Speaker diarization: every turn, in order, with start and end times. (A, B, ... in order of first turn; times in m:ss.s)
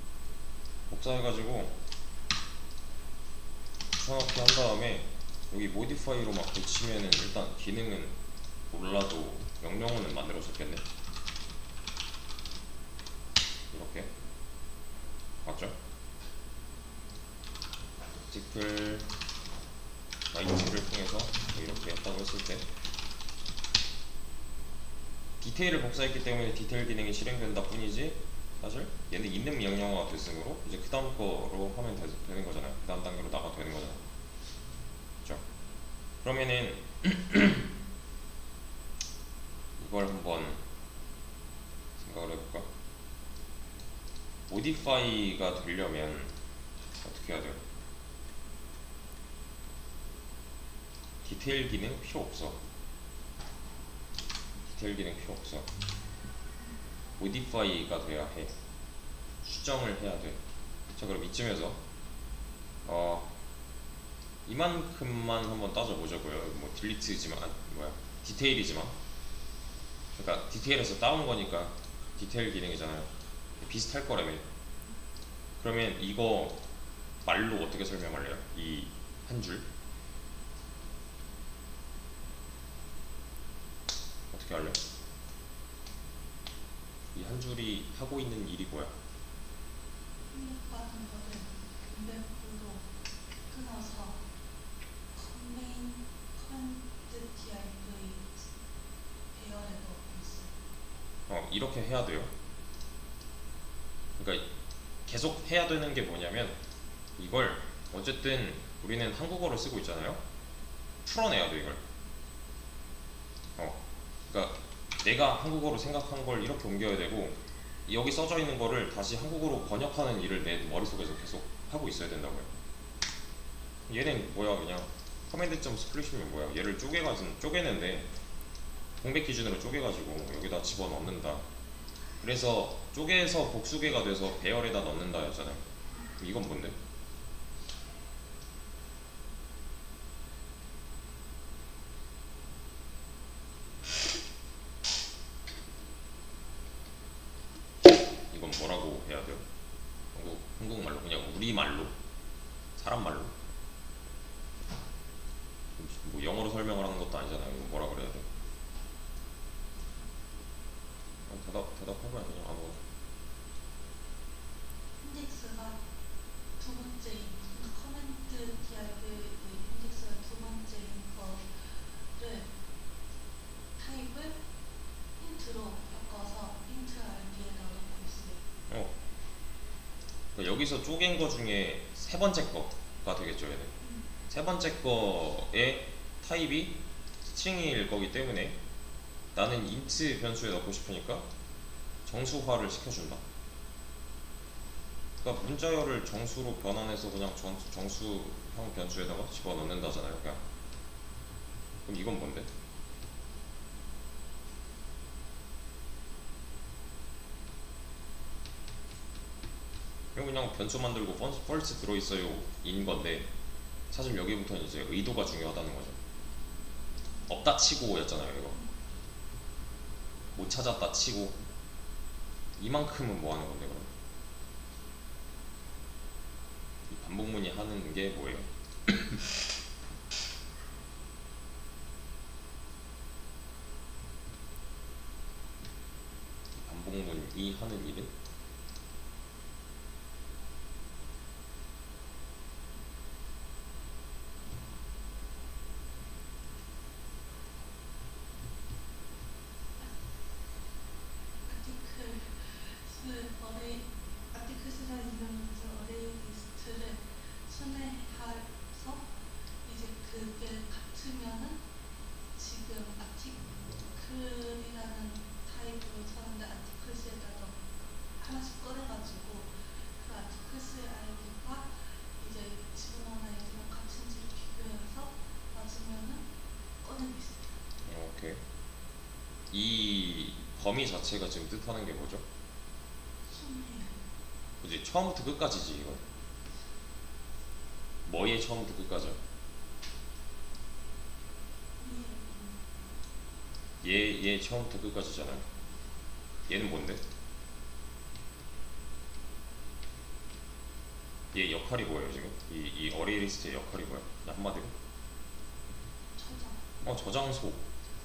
0:00.9-0:01.8 A
0:03.9-0:08.1 A
0:08.7-0:10.8 A
0:13.7-0:14.1 A
0:15.4-0:15.8 A
0:18.3-0:19.1 A
0:20.3-0:22.7 A
0:25.4-0:34.0 A
0:36.2-0:37.7 A
0:39.8-0:40.6 A
0:42.0-0:42.7 A
0:44.5-0:46.3 A
0:47.0-0:47.6 A
0:51.2-0:52.6 A
0:54.7-0:55.7 A
0:57.2-0:58.6 A
0:59.4-1:00.4 A
1:01.0-1:01.8 A
1:02.8-1:03.3 A
1:04.5-1:09.0 A
1:10.2-1:13.1 A
1:13.6-1:14.4 A
1:15.6-1:16.6 A
1:17.2-1:19.7 A
1:24.3-1:24.8 A
1:27.1-1:28.9 A
1:30.3-1:32.9 B
1:33.5-1:34.2 B
1:35.1-1:38.5 B
1:39.3-1:40.5 B
1:41.3-1:42.3 A
1:44.2-1:44.5 A
1:45.1-1:46.6 A
1:47.2-1:50.2 A
1:51.0-1:51.8 A
1:53.6-2:02.5 A
2:03.9-2:08.1 A
2:09.0-2:11.4 A
2:12.2-2:15.6 A
2:16.2-2:16.8 A
2:28.3-2:29.5 A
2:30.1-2:31.9 A
2:32.8-2:33.3 A
2:35.8-2:38.3 A
2:41.3-2:42.8 A
2:45.0-2:45.8 B
2:46.6-2:52.5 B
2:53.8-2:54.4 B
2:55.2-2:58.4 B
2:58.7-2:58.9 A
3:00.4-3:03.7 A
3:03.8-3:04.1 B
3:04.3-3:08.6 A
3:09.4-3:11.3 A
3:12.1-3:13.2 A
3:15.2-3:20.4 A
3:21.9-3:22.5 A
3:30.2-3:33.3 A
3:33.9-3:36.0 A
3:37.3-3:38.6 A
3:40.4-3:41.4 A
3:42.6-3:43.9 A
3:46.9-3:49.2 A
3:56.5-3:58.1 A
4:11.4-4:19.1 B
4:19.6-4:21.6 B
4:22.4-4:27.6 B
4:28.2-4:36.3 B
4:36.8-4:37.6 B
4:37.8-4:38.4 A
4:39.5-4:42.2 A
4:43.3-4:44.0 B
4:44.6-4:46.0 A
4:48.1-4:49.2 A
4:51.8-4:52.8 B
4:53.8-4:55.5 A
4:56.5-4:57.0 A
5:01.3-5:04.7 A
5:06.2-5:06.7 B
5:06.8-5:07.7 A